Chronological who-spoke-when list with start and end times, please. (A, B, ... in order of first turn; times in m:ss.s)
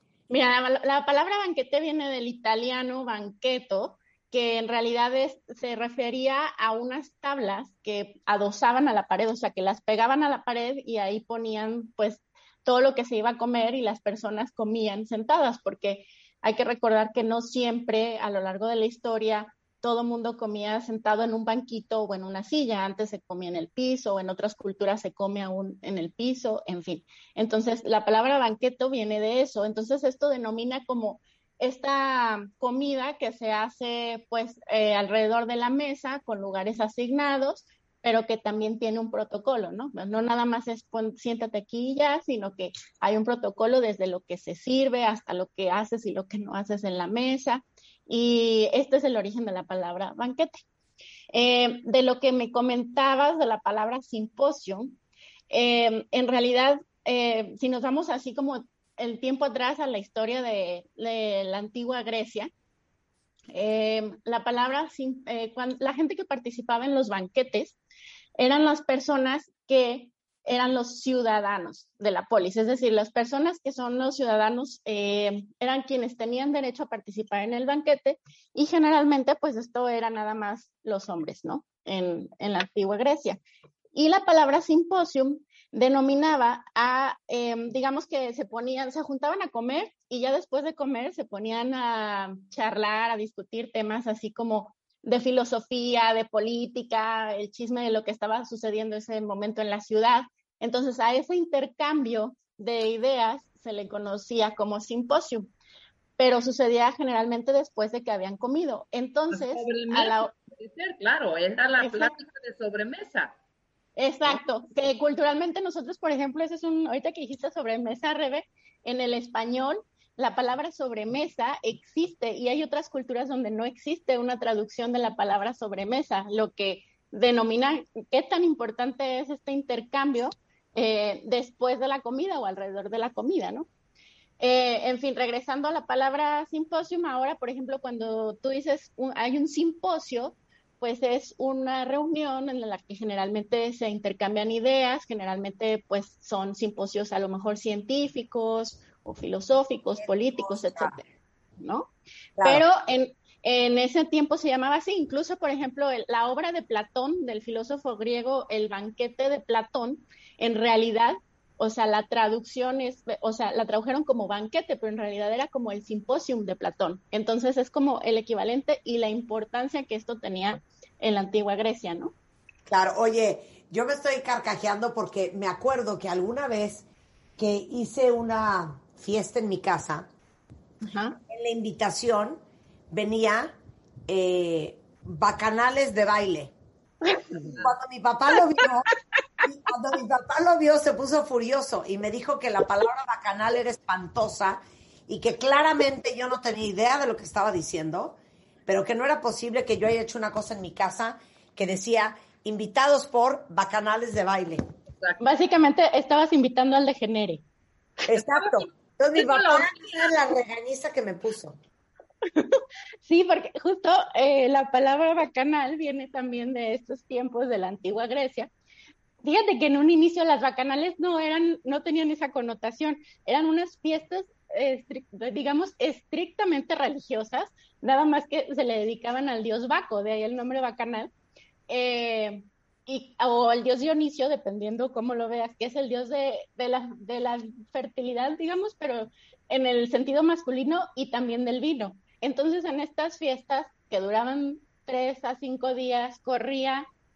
0:00.3-0:50.6 A
0:51.3-0:54.9 A
0:55.5-1:02.5 A
1:03.5-1:07.8 A
1:08.4-1:23.4 A
1:23.9-1:45.5 A
1:46.2-1:50.3 A
1:49.3-1:53.4 B
1:51.8-1:52.1 A
1:54.0-2:13.7 A
2:14.4-2:31.0 A
2:30.0-2:31.0 C
2:31.6-2:31.9 A
2:32.4-2:32.6 C
2:32.4-2:52.1 A
2:52.7-2:56.8 C
2:57.4-3:00.1 C
3:00.8-3:01.2 A
3:01.3-3:03.6 C
3:04.1-3:06.5 C
3:07.3-3:08.9 C
3:09.4-3:24.6 C
3:25.2-3:27.4 A
3:28.1-3:31.6 C
3:28.2-3:30.1 B
3:32.3-3:38.5 A
3:39.2-3:51.1 A
3:51.7-4:06.8 A